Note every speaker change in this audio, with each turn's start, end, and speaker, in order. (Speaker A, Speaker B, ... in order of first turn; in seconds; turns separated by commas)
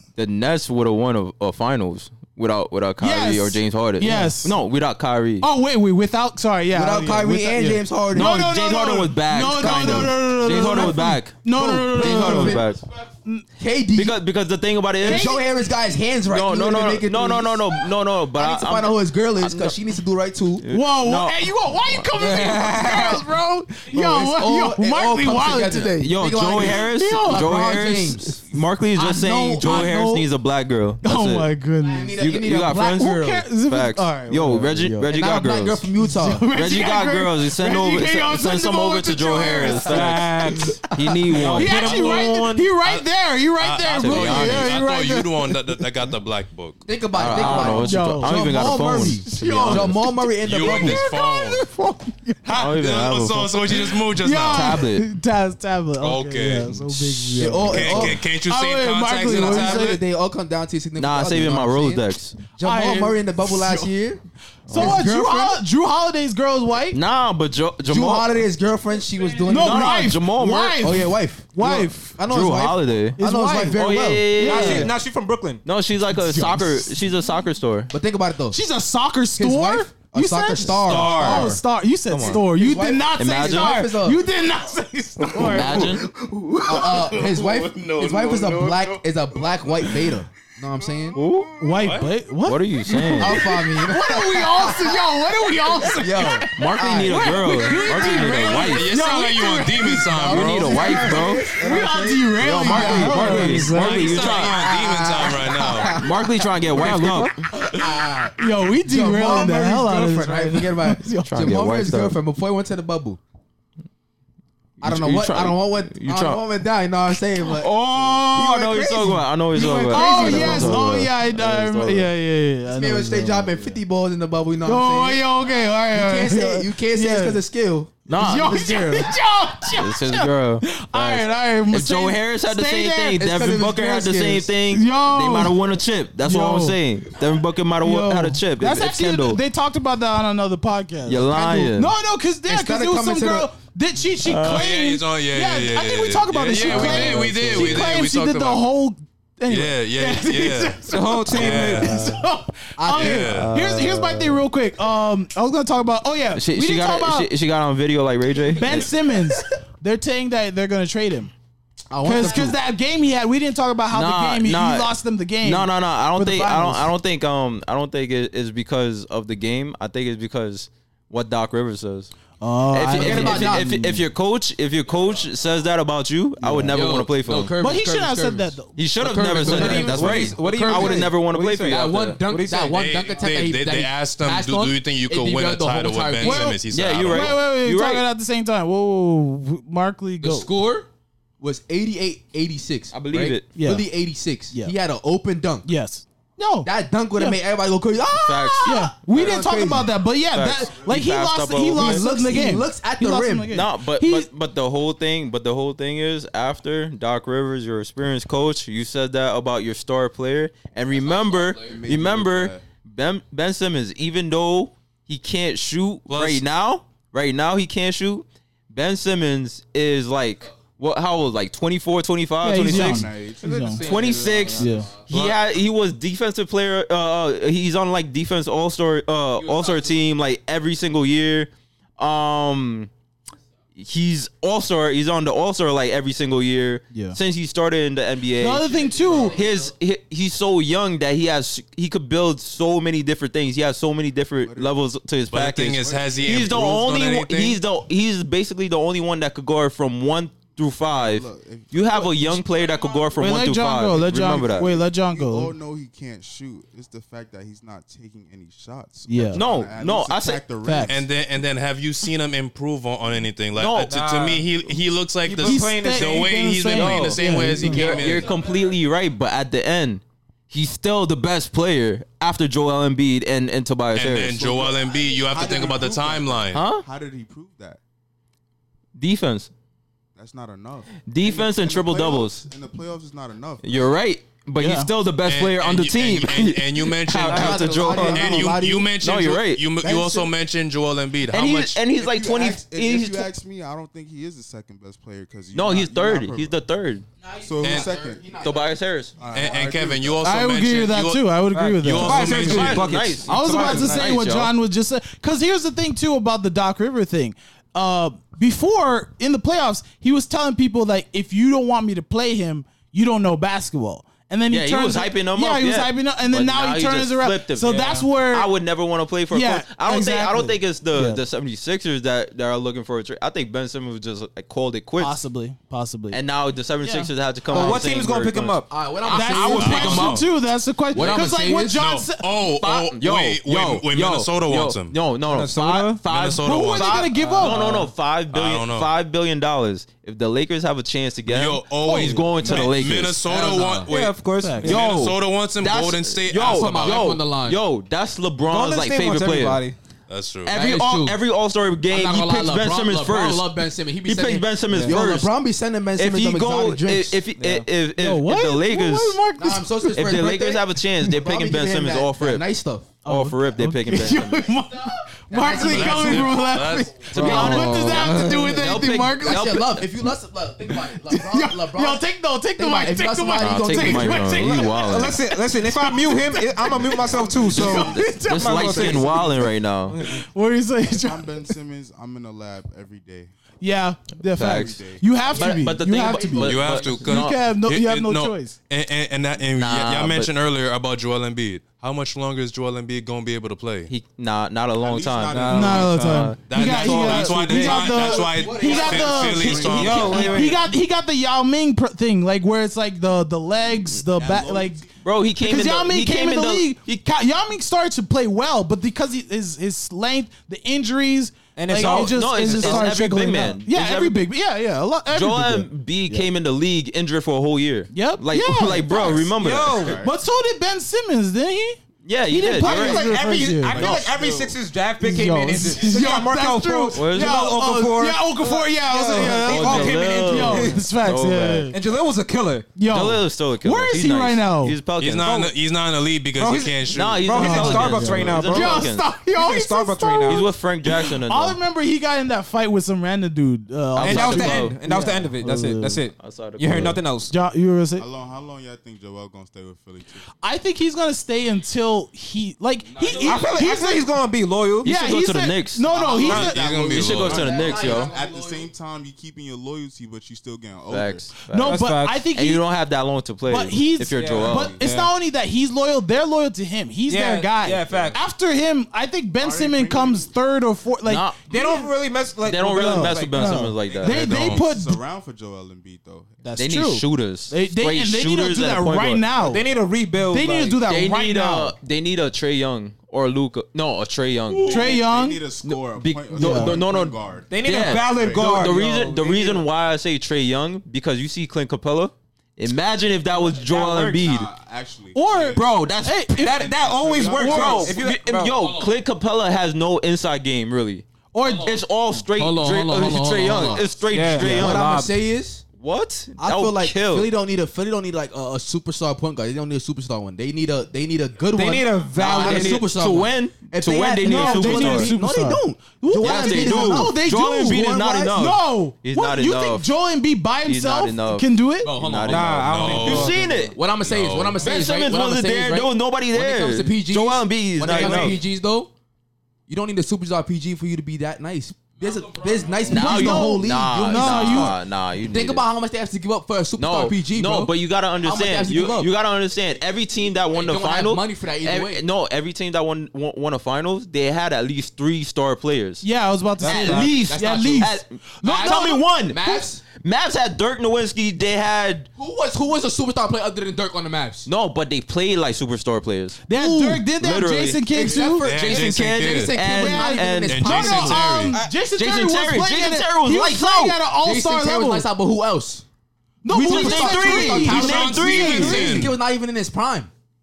Speaker A: 0.1-5.5, Speaker B: 3.0-4.6, Speaker B: 5.4-13.4, Speaker C: 6.7-8.7, Speaker A: 8.1-12.8, Speaker C: 9.4-12.7, Speaker C: 13.6-14.2, Speaker A: 13.9-15.4, Speaker C: 15.0-17.8, Speaker B: 15.0-15.5, Speaker A: 16.3-19.8, Speaker C: 18.4-20.6, Speaker A: 20.6-21.4, Speaker B: 20.7-25.9, Speaker D: 22.1-23.2, Speaker C: 23.9-29.9, Speaker A: 26.0-31.5, Speaker B: 26.5-27.8, Speaker B: 29.1-30.3, Speaker B: 31.0-35.1, Speaker C: 31.8-33.4, Speaker A: 32.2-35.8, Speaker C: 35.0-36.5, Speaker B: 36.0-45.7, Speaker A: 36.5-40.4, Speaker D: 39.6-40.8, Speaker A: 40.9-41.8, Speaker E: 41.3-46.9, Speaker D: 41.4-42.7, Speaker A: 43.9-44.8, Speaker C: 46.9-51.1, Speaker A: 47.1-50.0, Speaker B: 47.3-52.6, Speaker E: 50.4-51.6, Speaker E: 52.5-54.8, Speaker A: 52.5-53.6, Speaker B: 53.7-60.0, Speaker A: 54.5-55.1, Speaker E: 56.0-60.0, Speaker C: 57.3-58.2, Speaker C: 59.2-65.6, Speaker A: 61.0-62.4, Speaker B: 62.6-63.9, Speaker A: 64.7-65.0, Speaker B: 64.7-67.0, Speaker A: 66.9-68.3, Speaker C: 67.8-70.2, Speaker B: 69.4-72.2, Speaker A: 69.4-70.9, Speaker C: 70.8-74.9, Speaker A: 72.2-73.2, Speaker B: 73.2-74.9, Speaker A: 73.7-74.9, Speaker D: 74.4-75.6, Speaker A: 75.6-77.9, Speaker B: 76.1-76.9, Speaker C: 77.9-78.6, Speaker B: 78.5-86.0, Speaker C: 79.4-81.6, Speaker E: 80.8-81.6, Speaker A: 80.9-81.5, Speaker A: 82.1-82.4, Speaker C: 82.2-84.2, Speaker A: 83.2-83.9, Speaker A: 85.4-86.0, Speaker F: 85.4-88.0, Speaker C: 86.7-91.2, Speaker E: 87.1-89.0, Speaker F: 90.9-91.8, Speaker A: 91.1-91.5, Speaker B: 91.6-100.2, Speaker E: 91.8-92.1, Speaker A: 92.4-93.5, Speaker C: 93.0-95.0, Speaker C: 95.8-97.8, Speaker A: 96.5-98.9, Speaker E: 97.8-101.1, Speaker C: 100.0-102.0, Speaker A: 100.2-101.5, Speaker B: 100.9-103.8, Speaker F: 101.1-102.4, Speaker A: 102.4-104.6, Speaker C: 102.5-103.7, Speaker D: 102.9-104.8, Speaker E: 103.6-106.0, Speaker C: 104.3-106.4, Speaker A: 105.8-107.4, Speaker D: 106.7-107.3, Speaker C: 106.9-113.2, Speaker B: 108.4-111.6, Speaker A: 111.2-112.2, Speaker A: 114.8-116.4, Speaker C: 114.8-120.9, Speaker A: 117.4-122.1, Speaker D: 119.5-119.8, Speaker B: 119.8-123.8, Speaker C: 122.7-125.2, Speaker B: 124.6-127.4, Speaker C: 125.9-129.1, Speaker B: 128.1-133.2, Speaker A: 128.1-128.9, Speaker A: 129.8-139.4, Speaker C: 133.2-134.5, Speaker B: 134.7-135.6, Speaker B: 136.2-136.8, Speaker B: 137.8-157.3, Speaker A: 141.0-141.9, Speaker C: 141.2-141.7, Speaker C: 142.5-143.5, Speaker A: 144.2-144.6, Speaker E: 144.4-148.7, Speaker C: 146.7-147.9, Speaker A: 146.7-146.9, Speaker E: 149.5-152.0, Speaker D: 150.9-152.0, Speaker C: 152.8-153.5, Speaker E: 152.9-153.5, Speaker A: 153.3-154.4, Speaker A: 156.3-158.9, Speaker B: 158.5-161.3, Speaker C: 161.9-162.6, Speaker B: 162.0-166.9, Speaker A: 163.9-172.1, Speaker B: 172.4-174.0, Speaker A: 172.7-177.5, Speaker C: 172.9-173.7, Speaker B: 176.4-176.8, Speaker C: 176.6-186.6, Speaker B: 177.6-178.8, Speaker A: 178.8-182.2, Speaker D: 179.4-182.8, Speaker B: 179.4-179.9, Speaker E: 182.7-187.4, Speaker B: 186.2-190.5, Speaker A: 186.7-188.0, Speaker C: 190.2-190.9, Speaker C: 191.4-195.7, Speaker A: 192.9-193.5, Speaker B: 193.5-193.9, Speaker B: 195.7-197.4, Speaker C: 196.6-199.9, Speaker A: 198.1-199.5, Speaker B: 198.6-204.3, Speaker A: 200.3-202.1, Speaker C: 201.7-203.5, Speaker A: 203.5-223.1, Speaker C: 211.1-211.7, Speaker F: 211.6-212.6, Speaker E: 216.1-216.4, Speaker B: 222.4-223.8, Speaker F: 222.6-224.5, Speaker D: 223.4-224.9, Speaker A: 223.8-232.9, Speaker B: 224.5-224.9, Speaker E: 225.1-225.4, Speaker C: 229.5-229.8, Speaker A: 233.7-254.7, Speaker B: 236.9-237.2, Speaker B: 238.3-239.4, Speaker F: 238.8-239.3, Speaker F: 244.4-244.9, Speaker E: 245.3-247.6, Speaker F: 245.4-247.0, Speaker F: 250.8-253.1, Speaker B: 253.2-255.5, Speaker F: 254.1-261.1, Speaker B: 259.1-259.4, Speaker A: 259.3-260.4, Speaker B: 260.6-261.0, Speaker E: 260.8-268.3, Speaker A: 263.6-263.9, Speaker D: 263.8-264.5, Speaker D: 265.2-266.4, Speaker B: 265.4-267.9, Speaker A: 266.7-274.4, Speaker F: 267.5-268.6, Speaker C: 267.9-268.2, Speaker E: 273.9-276.7, Speaker F: 274.2-277.8, Speaker A: 276.5-276.8, Speaker A: 278.9-279.5, Speaker F: 280.1-283.7, Speaker A: 281.1-282.5, Speaker A: 283.6-289.6, Speaker B: 284.6-284.9, Speaker E: 285.2-291.8, Speaker C: 287.2-288.9, Speaker F: 289.8-290.2, Speaker C: 289.8-290.2, Speaker A: 291.3-293.3, Speaker F: 291.9-296.6, Speaker A: 295.5-297.1, Speaker F: 297.3-298.4, Speaker E: 297.6-297.9, Speaker C: 297.6-298.8, Speaker A: 298.4-299.1, Speaker F: 299.2-300.2, Speaker E: 299.3-302.9, Speaker B: 300.2-318.5, Speaker D: 301.5-304.1, Speaker A: 302.3-304.5, Speaker A: 314.5-325.2, Speaker B: 319.3-321.2, Speaker B: 325.0-326.2, Speaker A: 326.1-328.6, Speaker B: 326.8-327.1, Speaker D: 327.5-328.7, Speaker C: 327.5-327.9, Speaker C: 328.7-330.2, Speaker B: 329.1-332.3, Speaker E: 329.1-330.3, Speaker C: 330.9-331.8, Speaker E: 331.0-334.9, Speaker A: 332.6-343.2, Speaker D: 335.2-336.0, Speaker E: 336.1-337.1, Speaker B: 336.4-337.6, Speaker D: 337.2-337.8, Speaker E: 338.3-338.9, Speaker E: 341.2-347.2, Speaker D: 341.9-342.4, Speaker C: 343.2-343.9, Speaker D: 343.9-344.9, Speaker B: 344.4-344.8, Speaker A: 344.6-349.6, Speaker C: 346.4-347.6, Speaker D: 348.5-349.8, Speaker E: 350.1-350.5, Speaker A: 350.4-353.5, Speaker C: 350.5-351.2, Speaker C: 351.9-357.2, Speaker A: 354.0-355.3, Speaker A: 356.0-359.2, Speaker D: 357.4-357.6, Speaker B: 358.0-360.0, Speaker C: 359.4-362.9, Speaker A: 359.9-362.4, Speaker B: 363.0-369.6, Speaker A: 363.0-364.5, Speaker C: 365.3-366.3, Speaker E: 365.4-367.1, Speaker A: 367.1-369.9, Speaker D: 367.1-368.5, Speaker C: 367.2-368.2, Speaker C: 369.2-372.1, Speaker B: 370.7-378.9, Speaker C: 372.6-374.6, Speaker A: 373.3-375.2, Speaker D: 374.2-379.2, Speaker F: 376.0-379.5, Speaker A: 377.5-380.0, Speaker D: 379.9-380.2, Speaker B: 380.0-381.5, Speaker F: 380.9-383.3, Speaker B: 383.6-388.6, Speaker A: 384.3-384.8, Speaker F: 384.4-385.1, Speaker C: 385.3-387.0, Speaker A: 385.3-387.4, Speaker E: 386.4-393.9, Speaker A: 389.5-390.3, Speaker A: 393.9-398.1, Speaker F: 394.8-396.1, Speaker D: 395.3-396.3, Speaker B: 395.5-404.8, Speaker E: 396.5-400.2, Speaker C: 397.9-400.0, Speaker F: 398.4-400.2, Speaker D: 399.6-400.6, Speaker A: 399.8-400.4, Speaker F: 404.2-404.9, Speaker A: 405.0-407.0, Speaker B: 405.4-416.2, Speaker D: 411.6-413.0, Speaker A: 411.7-414.2, Speaker A: 415.1-420.0, Speaker B: 417.9-419.3, Speaker F: 418.6-420.2, Speaker D: 419.3-420.0, Speaker B: 420.0-424.0, Speaker A: 422.0-423.1, Speaker D: 422.5-430.8, Speaker A: 423.7-424.1, Speaker F: 423.7-424.5, Speaker B: 425.0-431.8, Speaker A: 426.9-427.4, Speaker A: 429.4-431.7, Speaker D: 431.7-432.7, Speaker B: 432.8-434.8, Speaker A: 432.9-435.3, Speaker E: 435.0-437.3, Speaker D: 435.2-435.5, Speaker D: 436.4-440.4, Speaker A: 436.9-439.1, Speaker B: 437.4-446.0, Speaker A: 440.3-441.6, Speaker A: 443.9-444.8, Speaker D: 444.0-447.3, Speaker A: 446.2-447.0, Speaker B: 446.7-448.1, Speaker F: 448.0-450.2, Speaker B: 450.4-454.1, Speaker C: 452.9-453.3, Speaker F: 453.0-453.4, Speaker D: 453.2-454.9, Speaker B: 454.8-456.6, Speaker A: 454.8-458.1, Speaker F: 455.9-461.3, Speaker D: 456.2-456.5, Speaker E: 456.2-457.5, Speaker C: 457.2-458.7, Speaker A: 460.9-464.7, Speaker B: 461.4-462.6, Speaker D: 461.6-462.3, Speaker B: 463.5-471.9, Speaker D: 464.1-465.1, Speaker F: 464.3-464.8, Speaker D: 467.1-468.2, Speaker F: 467.9-468.2, Speaker F: 469.4-470.3, Speaker A: 471.0-471.4, Speaker D: 471.5-473.6, Speaker A: 472.4-474.4, Speaker B: 472.7-475.0, Speaker F: 473.8-476.4, Speaker E: 474.0-474.6, Speaker B: 476.4-479.6, Speaker A: 476.6-479.2, Speaker D: 479.4-480.8, Speaker B: 480.3-481.7, Speaker A: 480.8-484.9, Speaker F: 484.5-488.5, Speaker B: 484.7-485.4, Speaker A: 485.6-494.5, Speaker B: 486.3-486.8, Speaker D: 487.5-489.6, Speaker D: 493.5-494.3, Speaker F: 494.2-495.6, Speaker B: 495.1-497.9, Speaker A: 495.5-496.4, Speaker D: 496.4-498.6, Speaker F: 496.5-497.9, Speaker A: 497.3-501.0, Speaker C: 498.5-498.9, Speaker B: 501.3-501.8, Speaker C: 501.4-501.8, Speaker A: 501.6-504.9, Speaker C: 502.3-505.6, Speaker D: 503.4-505.1, Speaker A: 505.8-507.3, Speaker C: 506.4-518.4, Speaker D: 511.5-512.9, Speaker A: 512.2-515.1, Speaker B: 514.2-521.9, Speaker A: 516.2-519.9, Speaker A: 520.6-523.8, Speaker C: 521.8-528.9, Speaker D: 522.3-523.7, Speaker E: 522.6-523.3, Speaker E: 524.0-524.7, Speaker A: 524.6-528.4, Speaker D: 527.9-528.4, Speaker C: 529.7-539.1, Speaker A: 532.9-535.7, Speaker B: 532.9-534.7, Speaker A: 536.8-546.0, Speaker C: 540.5-542.0, Speaker B: 546.0-549.6, Speaker D: 546.6-547.1, Speaker A: 546.6-552.1, Speaker C: 547.2-547.9, Speaker C: 548.4-549.8, Speaker C: 552.1-554.5, Speaker A: 554.5-558.0, Speaker B: 556.5-558.5, Speaker C: 556.6-557.0, Speaker C: 557.9-561.3, Speaker E: 558.4-559.6, Speaker A: 558.6-561.1, Speaker B: 559.6-565.1, Speaker E: 560.5-561.6, Speaker A: 562.0-564.0, Speaker C: 564.2-565.8, Speaker B: 566.4-569.1, Speaker C: 566.5-570.1, Speaker A: 566.5-569.1, Speaker E: 567.7-569.1